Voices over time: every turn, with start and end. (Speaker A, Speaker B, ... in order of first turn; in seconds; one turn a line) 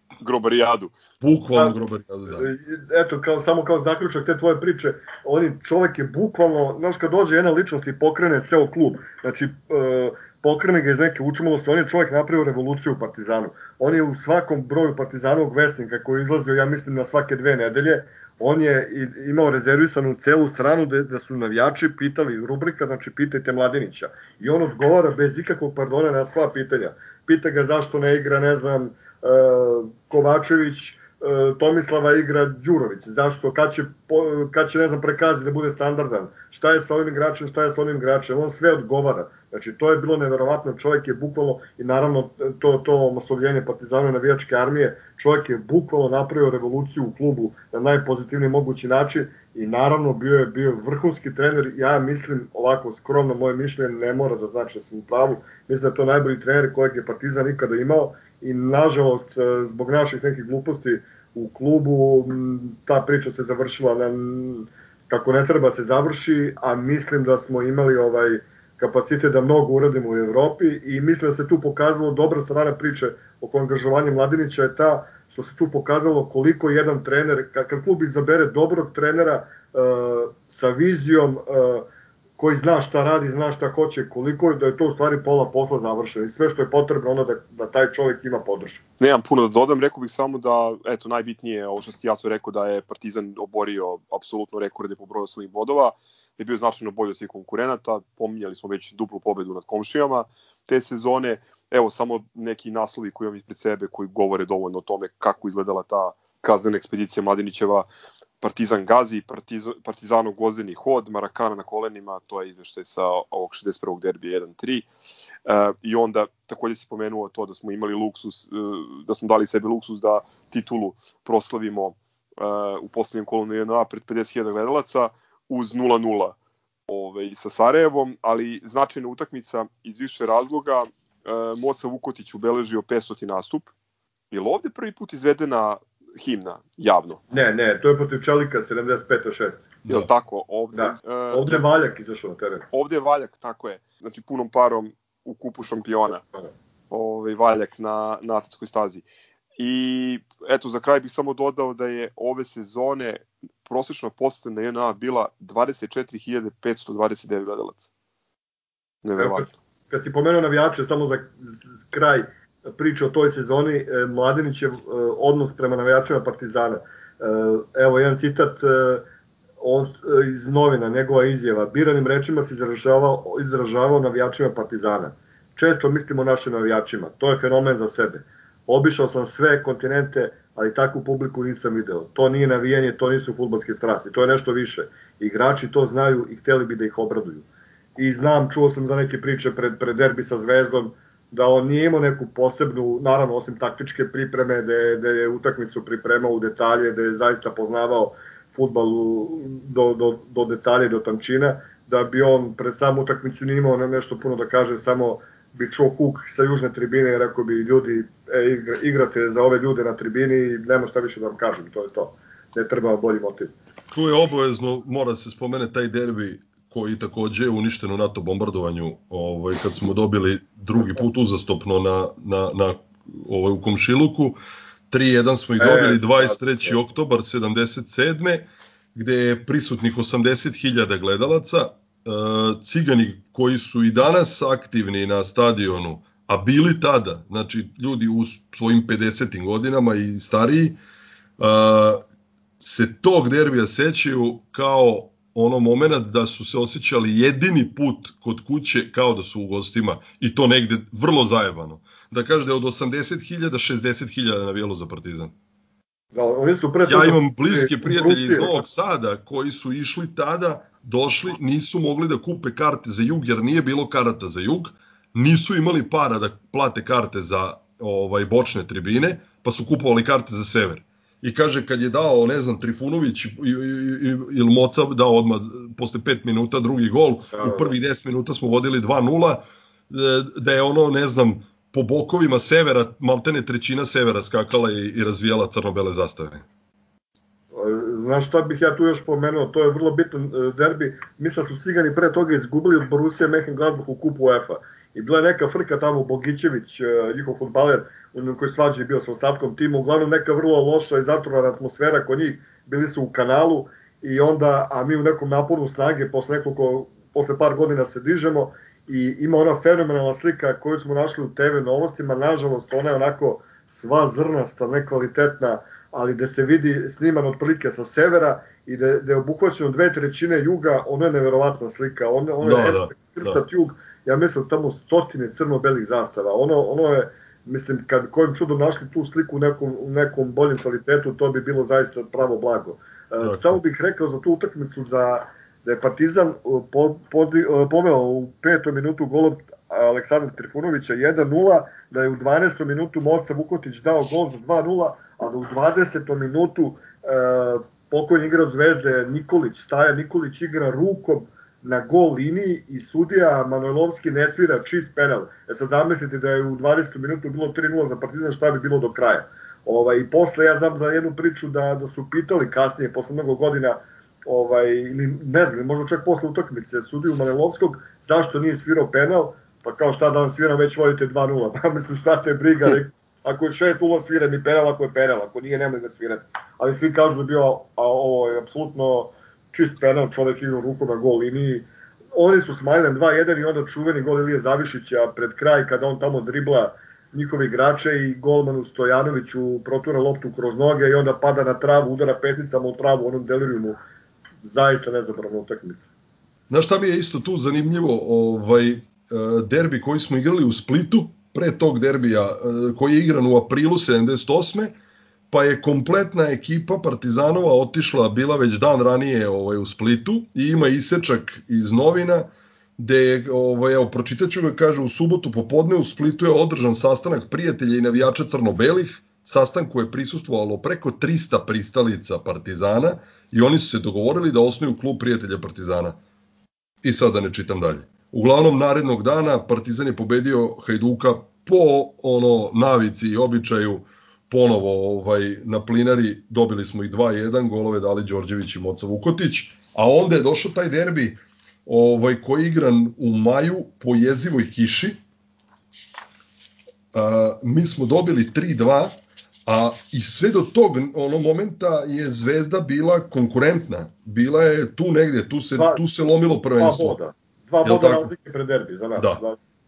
Speaker A: 0.2-0.9
Speaker B: 1.2-2.5
Speaker C: 2.3-81.9
Speaker C: 82.4-88.8
Speaker A: 89.0-107.9
Speaker A: 108.4-114.9
Speaker A: 115.5-126.4
Speaker A: 126.9-133.7
Speaker A: 134.3-137.2
Speaker C: 137.3-139.7
Speaker A: 139.9-141.6
Speaker C: 140.7-142.7
Speaker A: 142.7-146.2
Speaker A: 146.9-149.1
Speaker A: 149.6-157.9
Speaker A: 159.0-159.5
Speaker C: 159.2-169.1
Speaker C: 169.6-213.5
Speaker B: 213.9-224.4
Speaker B: 224.9-240.8
Speaker C: 225.6-226.7
Speaker B: 241.4-242.0
Speaker B: 242.6-255.3
Speaker C: 256.1-258.6
Speaker B: 256.9-286.4
Speaker C: 277.3-277.7
Speaker C: 287.5-393.8
Speaker B: 322.4-323.4
Speaker B: 333.2-333.6
Speaker C: 394.4-395.9
Speaker B: 396.5-404.7
Speaker B: 405.3-426.0
Speaker B: 426.8-445.0
Speaker B: 446.9-448.9
Speaker B: 449.5-456.9
Speaker C: 455.6-455.8
Speaker C: 456.5-459.4
Speaker B: 457.6-458.1
Speaker B: 458.9-459.2